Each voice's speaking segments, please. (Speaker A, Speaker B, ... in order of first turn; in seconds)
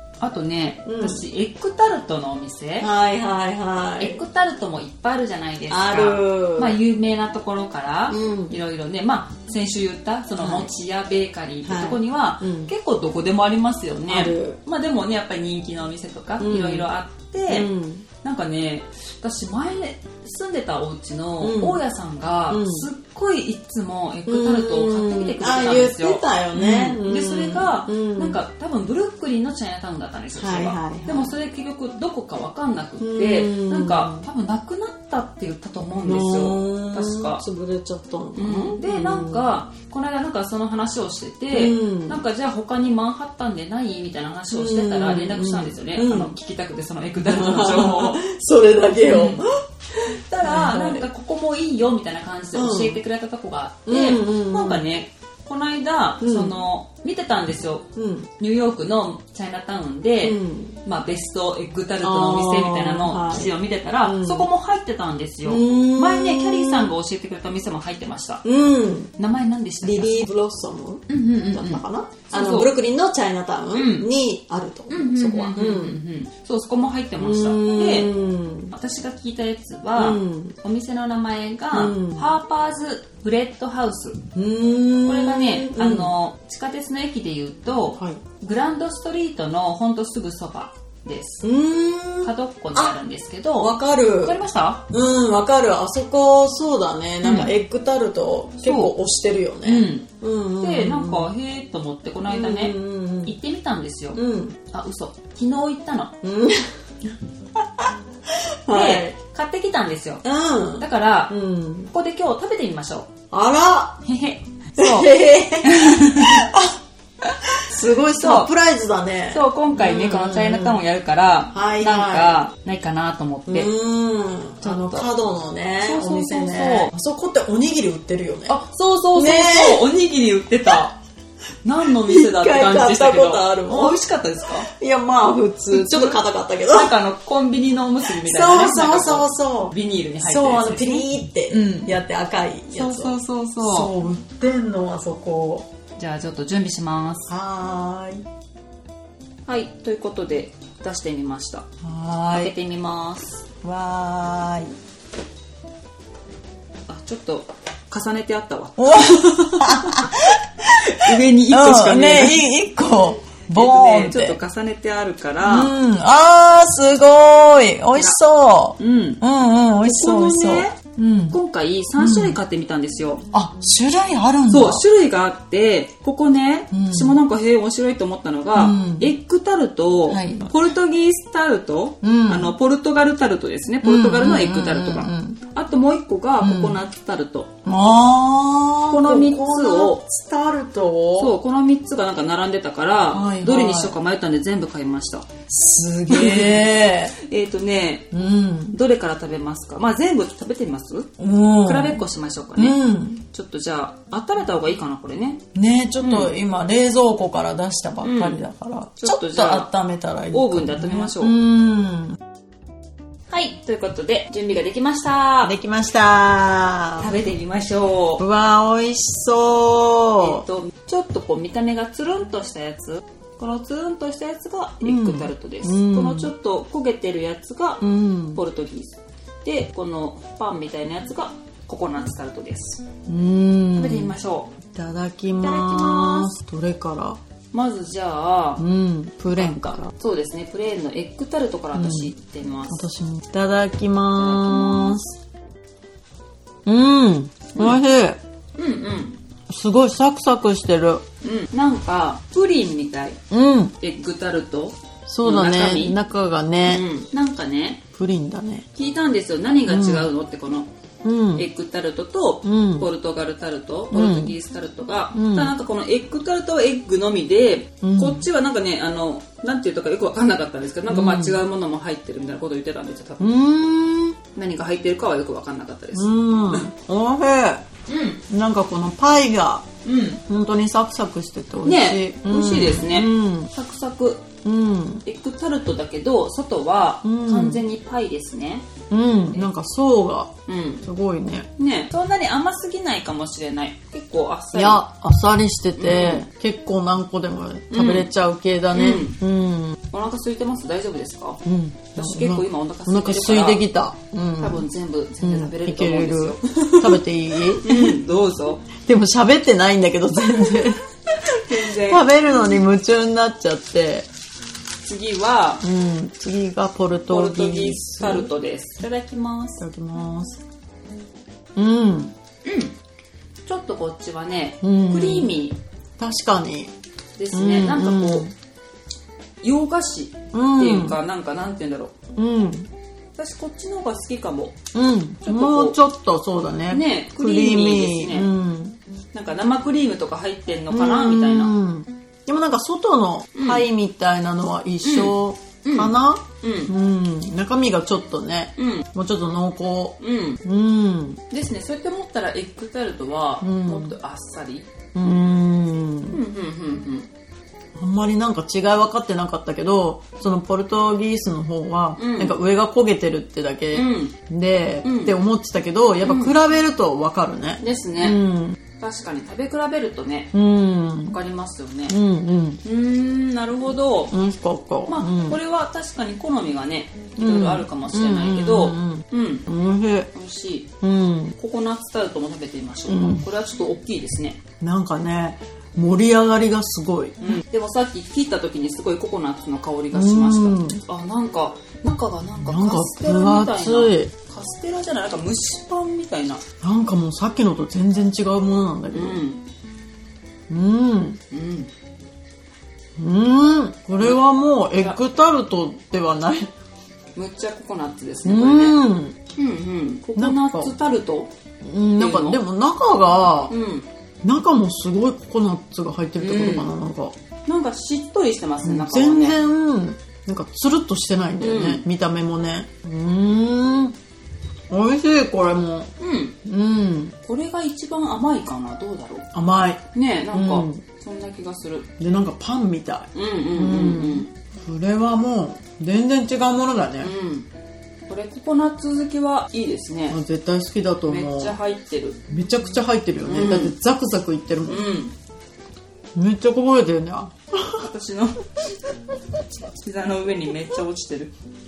Speaker A: 0.2-2.9, 4.0-17.7, 18.2-37.4, 38.4-48.2, 49.1-49.4, 50.0-57.9, 58.4-68.4, 69.2-70.3, 71.1-72.7, 73.7-74.1, 74.9-78.1, 78.7-84.2, 85.1-91.5, 92.2-94.8, 97.2-97.5, 98.6-98.9, 99.6-100.1, 100.6-106.2, 108.7-110.2, 110.8-111.3, 111.9-113.1, 114.0-116.5, 118.1-118.5, 119.3-123.7, 124.6-125.1, 125.8-126.9, 128.5-131.0, 131.7-134.7, 135.7-141.9, 142.7-143.9, 146.0-147.3, 149.5-151.7, 152.3-153.4, 156.9-160.2, 160.8-162.4, 163.5-165.7, 168.8-169.2, 169.8-170.8, 171.3-173.2, 174.5-187.5, 188.9-190.0, 191.2-195.3, 196.1-198.1, 198.7-201.1, 201.6-202.8, 203.3-205.4, 206.0-206.3, 208.0-208.4, 209.0-209.7, 210.3-211.4, 213.3-215.6, 217.0-218.2, 220.2-232.8, 233.8-234.5, 235.4-236.3, 237.5-238.6, 239.3-242.8, 244.2-245.1, 247.6-247.8, 248.6-249.2, 251.2-253.2, 253.8-256.0, 256.6-257.8, 258.8-260.7, 261.3-273.2, 274.4-276.7, 277.9-278.2, 279.9-280.2, 281.6-284.3, 285.1-288.7, 290.5-290.9, 291.6-294.8, 295.8-296.3, 297.7-298.1, 298.7-299.2, 299.9-301.4, 302.0-303.6, 304.4-307.0, 307.6-308.6, 311.3-312.6, 314.8-315.6, 317.1-319.6, 322.4-322.7, 323.5-325.6, 327.2-328.3, 329.4-331.9, 333.2-334.6, 335.2-335.8, 336.7-338.3, 339.1-341.5, 343.4-343.7, 344.8-346.7, 348.6-348.9, 350.0-350.4, 351.3-354.7, 356.1-357.1, 362.0-362.4, 363.7-364.1, 364.8-365.2, 366.0-366.4, 367.6-368.2, 368.8-370.3, 371.1-372.0, 372.6-374.1, 374.9-379.5, 380.1-380.7, 381.4-384.4, 387.2-396.4, 398.9-399.4, 401.3-401.7, 407.2-408.8, 409.4-411.3, 412.0-412.4, 413.5-413.9, 416.2-416.7, 417.5-419.4, 421.4-421.8, 426.0-426.4, 427.2-429.3, 429.9-431.9, 433.1-434.3, 437.0-437.5, 438.1-440.2, 441.1-442.2, 443.2-443.7, 444.7-445.1, 447.8-448.4, 449.7-451.3
Speaker B: 0.8-1.2, 2.8-4.2, 5.7-6.8, 8.1-8.6, 10.4-10.7, 11.6-12.7, 14.1-14.6, 16.4-16.9, 17.5-18.1, 21.4-21.8, 22.5-22.9, 24.3-28.4, 30.4-31.3, 33.0-34.2, 36.0-39.5, 41.5-42.2, 44.5-46.3, 47.2-49.5, 50.4-51.1, 52.5-53.0, 53.9-54.8, 56.2-56.5, 58.0-58.3, 60.2-60.8, 62.0-64.5, 65.5-66.9, 68.4-69.1, 69.8-76.0, 77.2-78.7, 80.0-80.6, 81.7-82.3, 84.3-86.1, 91.4-93.0, 93.6-94.4, 94.9-101.3, 102.3-103.3, 104.1-104.6, 106.2-109.2, 110.2-111.9, 113.3-114.0, 114.8-116.8, 117.6-120.8, 121.5-122.4, 123.5-128.6, 129.2-129.9, 131.9-134.0, 134.7-136.9, 138.0-145.7, 147.3-148.2, 151.8-152.5, 153.6-154.7, 158.8-164.4, 165.4-171.4, 172.0-172.4, 173.3-174.8, 176.7-177.2, 178.6-179.1, 180.1-180.5, 182.0-182.5, 183.8-185.4, 186.4-186.8, 187.7-191.4, 193.1-194.0, 195.5-197.1, 198.1-198.8, 201.2-202.0, 202.6-203.2, 205.6-212.2, 215.4-217.1, 218.2-220.4, 224.8-226.3, 227.8-228.4, 233.1-234.2, 234.7-237.2, 238.6-239.9, 241.7-242.1, 242.7-245.2, 246.7-248.2, 249.5-251.0, 253.3-253.8, 255.1-256.9, 257.9-258.6, 259.7-260.1, 261.0-261.5, 262.4-262.9, 263.9-264.4, 265.1-265.5, 267.8-268.2, 270.9-271.4, 273.2-274.2, 275.9-277.6, 278.3-279.7, 280.3-283.5, 284.4-285.0, 287.0-287.6, 288.9-291.5, 294.5-299.8, 301.4-304.7, 305.2-308.0, 308.8-310.8, 311.5-314.1, 315.6-318.3, 319.6-320.4, 321.6-322.1, 324.6-325.3, 326.0-326.7, 327.3-328.3, 330.3-331.0, 332.1-332.7, 334.7-338.8, 340.7-351.2, 353.4-353.9, 354.9-356.2, 357.8-368.6, 370.3-371.2, 371.9-372.6, 374.1-375.4, 377.2-380.1, 380.8-381.4, 382.9-383.3, 384.6-387.4, 389.9-390.8, 392.4-394.1, 396.6-399.2, 400.5-401.2, 403.0-406.5, 408.2-409.2, 410.2-410.7, 411.6-413.5, 414.2-417.1, 418.6-424.0, 424.7-425.9, 426.4-427.2, 429.3-430.8, 432.0-437.1, 440.1-441.6, 442.3-444.9, 446.1-447.9